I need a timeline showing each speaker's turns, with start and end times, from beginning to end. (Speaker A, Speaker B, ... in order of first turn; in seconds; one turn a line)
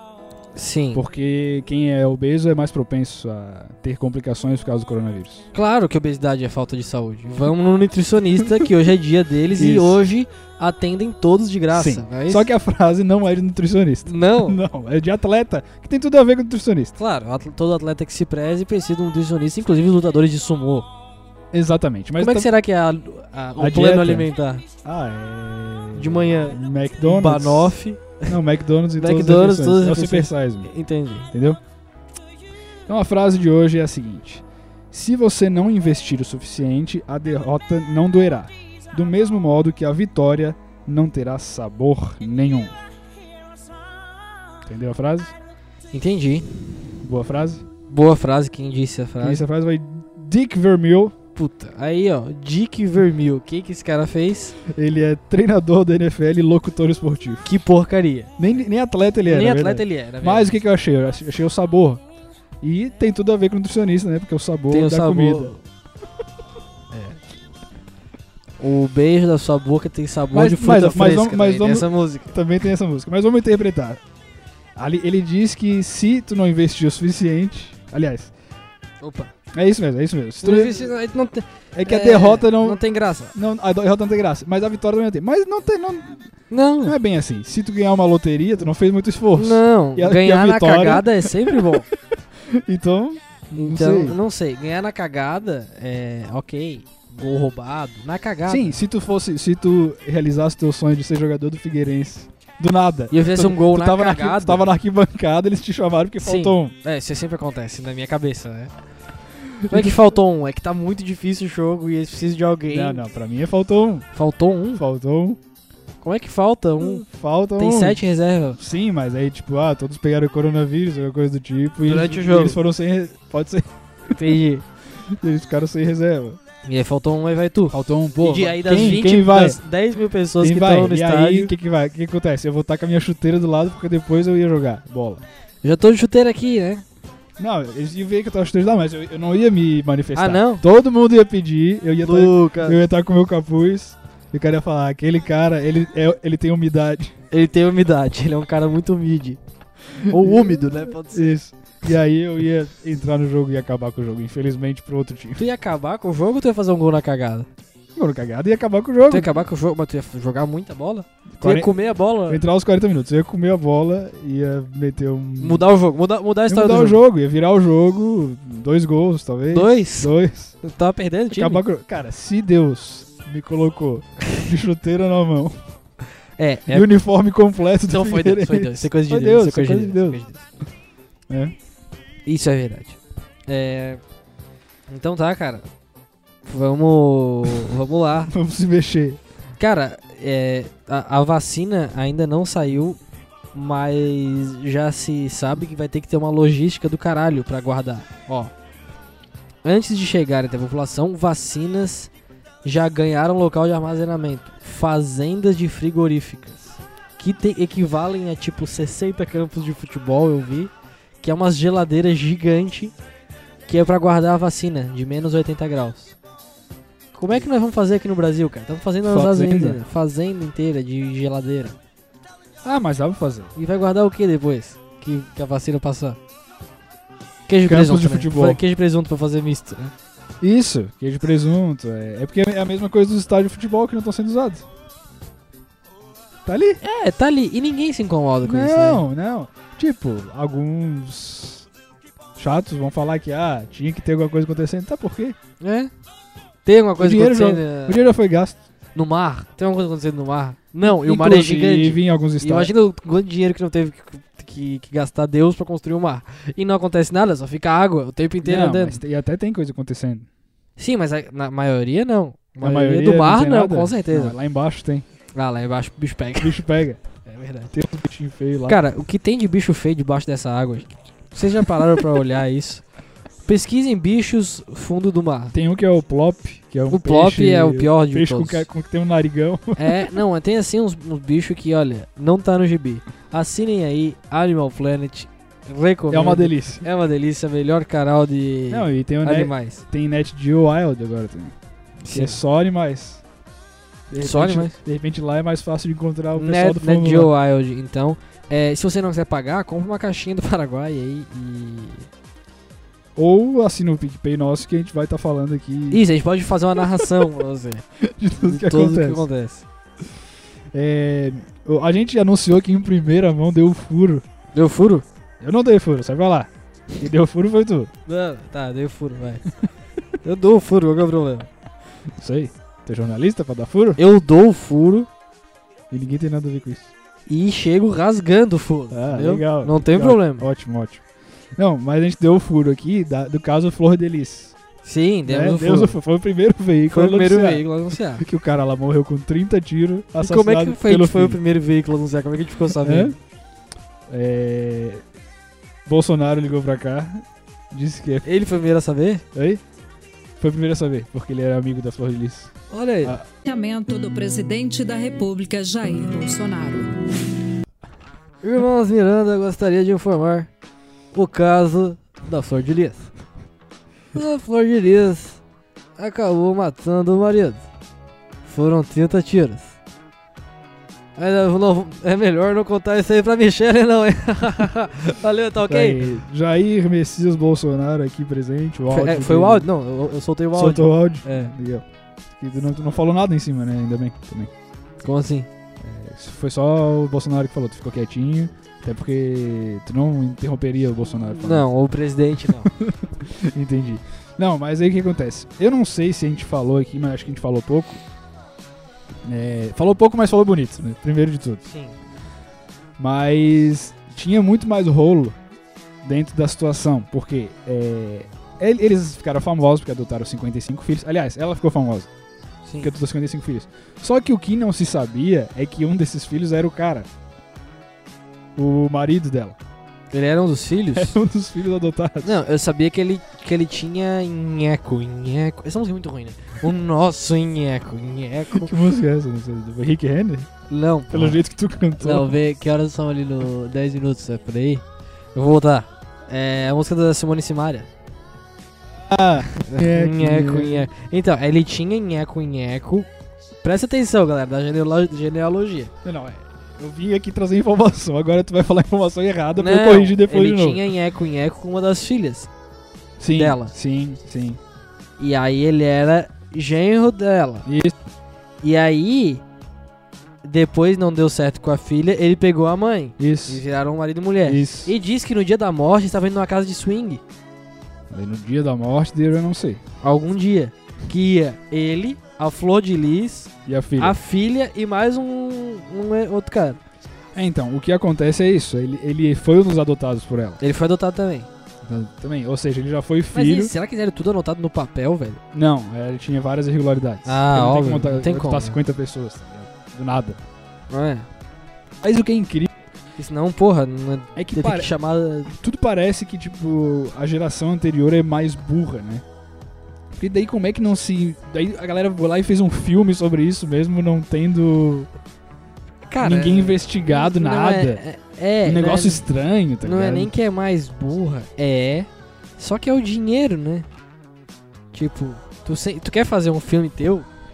Speaker A: 0.5-1.0
Speaker B: 0.9-5.5
Speaker A: 5.5-12.4
Speaker B: 9.5-10.0
Speaker B: 11.7-16.9
Speaker A: 14.1-14.6
Speaker A: 17.0-20.9
Speaker B: 21.5-22.5
Speaker A: 22.2-24.6
Speaker B: 23.6-24.3
Speaker B: 24.8-27.8
Speaker A: 25.9-28.3
Speaker B: 28.3-30.7
Speaker A: 29.0-31.3
Speaker B: 31.3-31.6
Speaker B: 32.9-42.7
Speaker B: 44.6-45.3
Speaker A: 45.9-46.5
Speaker B: 47.0-47.6
Speaker A: 47.9-49.4
Speaker B: 49.2-51.1
Speaker A: 51.4-54.6
Speaker B: 54.6-57.5
Speaker A: 57.4-58.3
Speaker B: 58.4-62.0
Speaker A: 59.3-60.5
Speaker B: 62.6-65.5
Speaker A: 64.7-65.6
Speaker A: 66.9-67.2
Speaker A: 68.6-72.3
Speaker B: 70.3-74.0
Speaker B: 74.8-78.3
Speaker A: 79.0-79.3
Speaker B: 79.5-80.9
Speaker A: 80.4-83.3
Speaker B: 81.7-91.8
Speaker A: 86.5-86.9
Speaker A: 89.3-91.9
Speaker B: 92.5-94.2
Speaker A: 93.5-98.8
Speaker B: 98.5-106.7
Speaker A: 103.1-104.7
Speaker A: 106.2-108.7
Speaker B: 109.5-110.1
Speaker A: 109.7-113.0
Speaker B: 112.7-114.1
Speaker A: 114.1-114.8
Speaker B: 114.7-115.4
Speaker A: 116.0-117.0
Speaker B: 116.8-118.0
Speaker A: 117.6-118.6
Speaker B: 118.6-124.4
Speaker A: 121.9-122.6
Speaker A: 124.1-124.6
Speaker B: 125.0-126.4
Speaker A: 126.6-131.5
Speaker B: 127.7-129.6
Speaker B: 130.4-135.2
Speaker A: 135.6-136.8
Speaker B: 137.4-147.1
Speaker A: 140.1-140.6
Speaker A: 142.0-142.8
Speaker A: 147.3-149.4
Speaker B: 150.0-155.4
Speaker A: 150.1-151.3
Speaker A: 155.4-157.5
Speaker B: 157.9-159.3
Speaker A: 159.1-162.4
Speaker B: 161.3-165.6
Speaker A: 165.4-167.0
Speaker B: 166.5-170.6
Speaker A: 169.5-171.6
Speaker B: 171.3-175.6
Speaker A: 176.4-176.9
Speaker B: 176.7-180.2
Speaker A: 177.9-180.4
Speaker B: 181.3-181.5
Speaker A: 182.2-184.0
Speaker A: 184.9-185.7
Speaker A: 186.4-188.3
Speaker B: 188.3-189.2
Speaker A: 189.6-193.0
Speaker A: 193.5-198.5
Speaker A: 199.6-202.1
Speaker A: 202.6-210.7
Speaker A: 211.2-212.9
Speaker A: 213.7-216.1
Speaker A: 217.1-221.8
Speaker B: 219.1-219.8
Speaker B: 222.6-223.5
Speaker A: 223.5-226.2
Speaker A: 227.5-229.9
Speaker B: 227.7-228.6
Speaker B: 230.4-234.7
Speaker B: 236.4-236.8
Speaker A: 236.8-239.0
Speaker B: 238.4-241.7
Speaker B: 242.4-245.4
Speaker A: 245.6-245.9
Speaker A: 246.6-248.1
Speaker B: 247.0-248.6
Speaker A: 248.9-259.0
Speaker B: 250.8-252.7
Speaker B: 258.4-260.3
Speaker A: 260.8-264.3
Speaker B: 262.6-265.1
Speaker A: 265.3-266.6
Speaker B: 266.4-267.0
Speaker A: 267.2-267.7
Speaker B: 267.7-268.8
Speaker A: 268.7-272.8
Speaker A: 273.4-275.5
Speaker B: 275.5-280.1
Speaker A: 276.9-278.6
Speaker A: 279.8-289.8
Speaker B: 286.1-286.8
Speaker B: 288.7-291.5
Speaker A: 292.0-292.4
Speaker B: 292.1-293.2
Speaker B: 294.1-297.3
Speaker A: 294.2-294.8
Speaker A: 296.4-302.1
Speaker B: 303.1-306.0
Speaker A: 305.9-307.8
Speaker B: 308.0-309.2
Speaker A: 308.4-309.6
Speaker B: 310.7-314.2
Speaker A: 314.5-315.0
Speaker B: 315.4-317.9
Speaker A: 318.1-319.4
Speaker A: 320.2-321.5
Speaker B: 322.2-324.0
Speaker A: 324.0-325.1
Speaker B: 325.9-326.9
Speaker A: 327.3-330.5
Speaker B: 328.9-331.0
Speaker B: 331.6-334.6
Speaker A: 334.8-336.0
Speaker B: 335.2-341.4
Speaker A: 336.9-338.2
Speaker A: 340.2-343.1
Speaker B: 342.7-343.1
Speaker B: 344.1-345.0
Speaker B: 345.9-348.2
Speaker A: 348.2-349.2
Speaker B: 349.3-349.6
Speaker B: 350.4-353.2
Speaker A: 352.7-353.2
Speaker C: 353.4-356.9
Speaker A: 358.4-360.5
Speaker A: 361.1-363.1
Speaker A: 364.1-365.4
Speaker A: 366.0-367.6
Speaker A: 368.4-369.7
Speaker A: 371.2-376.0
Speaker B: 375.6-379.7
Speaker A: 378.9-381.5
Speaker B: 380.5-384.5
Speaker A: 385.0-385.5
Speaker B: 385.8-391.7
Speaker A: 391.4-392.7
Speaker B: 392.6-398.0
Speaker B: 399.2-401.6
Speaker A: 401.6-401.9
Speaker B: 403.0-405.4
Speaker B: 406.0-412.1
Speaker A: 412.6-412.9
Speaker B: 412.8-417.1
Speaker B: 418.6-419.6
Speaker A: 420.1-421.2
Speaker B: 420.9-422.4
Speaker A: 422.2-428.7
Speaker B: 428.5-430.5
Speaker A: 430.7-431.4
Speaker B: 431.1-432.4
Speaker A: 432.0-434.8
Speaker A: 435.3-437.9
Speaker B: 439.0-440.9
Speaker A: 439.6-443.1
Speaker A: 443.6-445.9
Speaker B: 446.0-450.8
Speaker A: 449.6-452.5
Speaker B: 453.2-454.6
Speaker A: 453.3-453.7
Speaker A: 455.2-457.7
Speaker B: 457.6-458.0
Speaker A: 458.6-459.4
Speaker A: 460.4-467.2
Speaker B: 463.2-463.6
Speaker B: 464.4-464.9
Speaker B: 468.1-469.8
Speaker A: 470.0-476.8
Speaker B: 473.6-474.2
Speaker B: 477.3-480.6
Speaker A: 480.6-481.5
Speaker B: 481.8-483.7
Speaker A: 483.3-485.4
Speaker B: 485.5-490.4
Speaker A: 487.2-488.8
Speaker A: 490.9-491.3
Speaker B: 492.0-492.7
Speaker A: 493.2-495.5
Speaker B: 494.4-494.9
Speaker B: 495.5-499.2
Speaker B: 500.1-505.1
Speaker A: 506.1-509.2
Speaker B: 506.2-508.0
Speaker B: 508.6-510.3
Speaker A: 509.8-513.9
Speaker A: 514.9-517.3